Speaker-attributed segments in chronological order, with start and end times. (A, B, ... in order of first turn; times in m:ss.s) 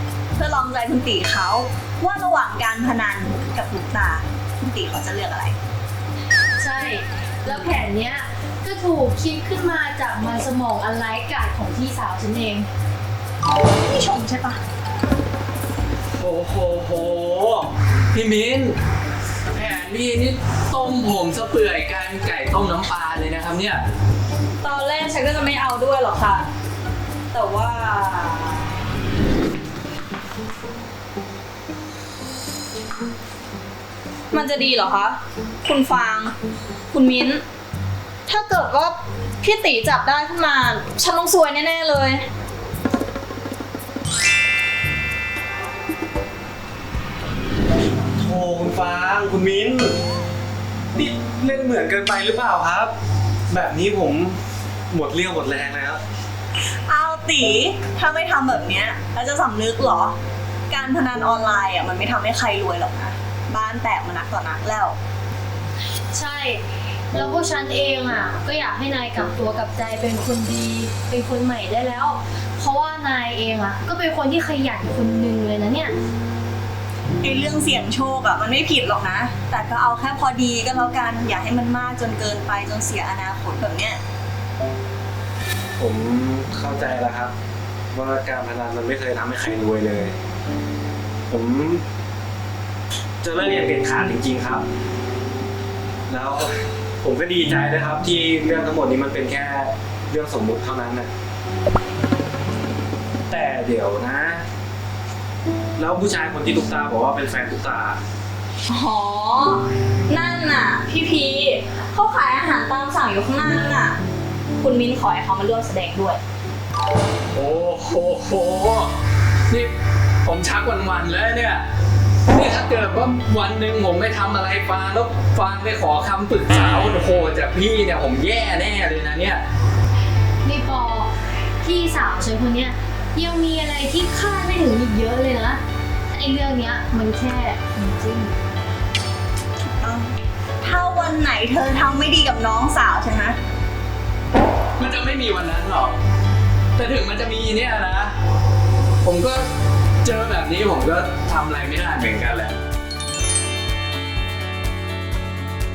0:00.4-0:05.6 A
0:06.6-0:12.7 B
0:13.7-0:14.6 A
0:16.2-0:17.6 C
0:16.2-0:16.9 D
0:18.1-0:18.7 C
0:19.5-0:23.8 C
0:24.6-0:26.5 E
0:27.3-0:28.8 E
0:34.3-0:36.3 E
0:36.9-0:37.4 E
0:38.3-0:42.3 E
0:48.2-0:50.0 D
0:51.0-0:52.9 D
0:53.5-0:54.4 D
0:54.9-0:56.0 D
0:56.6-1:00.2 A
1:00.7-1:05.0 A
1:06.1-1:15.9 B
1:17.2-1:24.0 A
1:25.8-1:27.3 D
1:27.9-1:30.2 D
1:31.3-1:31.8 D
1:33.2-1:34.6 D
1:36.1-1:41.1 D
1:43.3-1:44.4 D
1:45.8-1:48.0 D
1:48.7-1:54.0 E
1:54.6-1:56.2 E
1:57.3-1:58.9 C
2:00.2-2:01.6 C
2:02.3-2:09.4 C
2:10.4-2:18.3 B
2:19.8-2:23.4 A
2:24.8-2:26.0 C
2:26.8-2:28.2 C
2:29.0-2:29.5 C
2:30.0-2:32.6 C